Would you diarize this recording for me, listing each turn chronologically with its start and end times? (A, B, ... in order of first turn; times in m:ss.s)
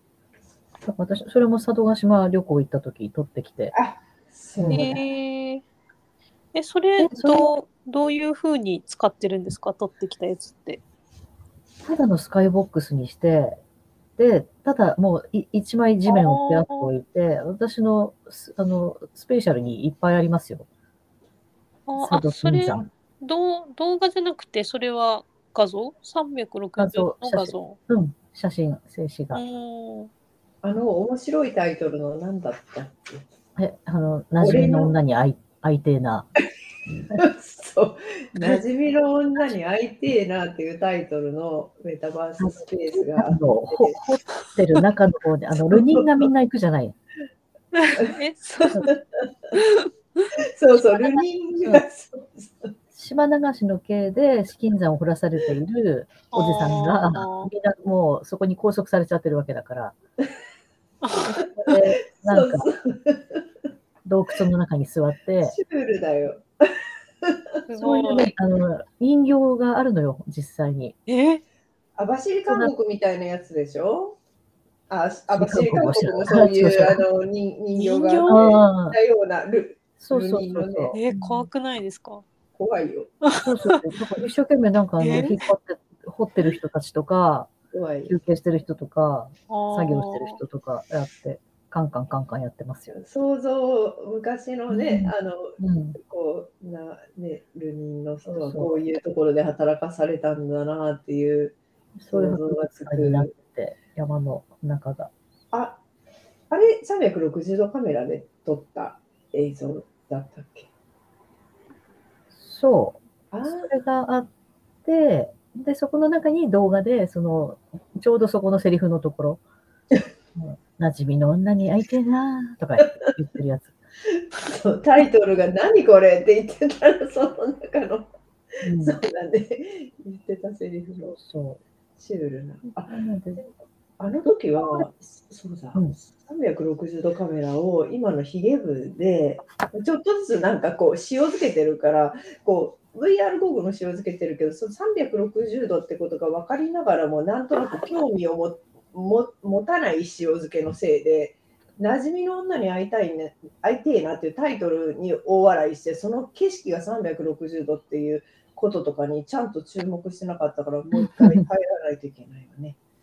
0:00.8-0:03.7 A
0:03.7-0:05.0 B
0:04.6-0:04.9 A
0:04.7-0:05.6 C
0:06.5-0:10.8 C
0:07.0-0:07.5 A
0:11.8-0:13.6 A
0:14.2-0:20.6 A
0:16.0-0:16.9 C
0:21.9-0:27.8 C
0:22.0-0:22.8 A
0:26.8-0:29.4 A
0:29.3-0:30.1 C
0:30.6-0:33.2 B
0:33.6-0:36.3 A
0:34.4-0:34.9 B
0:36.9-0:37.2 A
0:37.1-0:44.0 B
0:42.4-0:47.0 A
0:45.7-0:46.0 B
0:47.7-0:48.8 C
0:48.8-0:49.5 B
0:49.5-0:49.9 C
0:50.6-0:52.7 B
0:50.7-0:51.8 A
0:52.9-1:00.0 A
0:56.3-0:57.5 C
1:01.0-1:01.3 C
1:01.3-1:02.7 A
1:02.1-1:03.4 B
1:04.0-1:05.6 A
1:05.4-1:06.4 B
1:07.2-1:07.6 B
1:07.7-1:08.3 C
1:07.8-1:11.0 A
1:11.1-1:11.4 C
1:12.0-1:14.2 B
1:12.4-1:12.7 A
1:14.9-1:21.0 B
1:15.3-1:17.0 A
1:17.7-1:18.4 C
1:18.3-1:19.0 A
1:20.0-1:21.5 A
1:20.9-1:22.2 C
1:22.5-1:23.1 B
1:23.2-1:23.8 C
1:23.4-1:27.5 A
1:25.0-1:25.4 C
1:27.7-1:28.2 B
1:28.1-1:33.0 A
1:29.5-1:30.4 C
1:32.9-1:41.6 B
1:34.7-1:36.0 A
1:38.2-1:38.7 A
1:42.0-1:45.1 A
1:42.1-1:43.3 B
1:45.5-1:45.8 B
1:46.5-1:50.7 B
1:52.3-1:54.3 A
1:53.3-1:53.7 B
1:54.8-1:59.4 A
2:00.4-2:03.7 A
2:04.4-2:08.1 B
2:08.6-2:09.0 A
2:08.7-2:11.1 B
2:11.0-2:11.6 A
2:12.0-2:12.9 B
2:12.7-2:13.4 A
2:14.0-2:42.8 B
2:14.2-2:14.9 A
2:40.9-2:41.5 A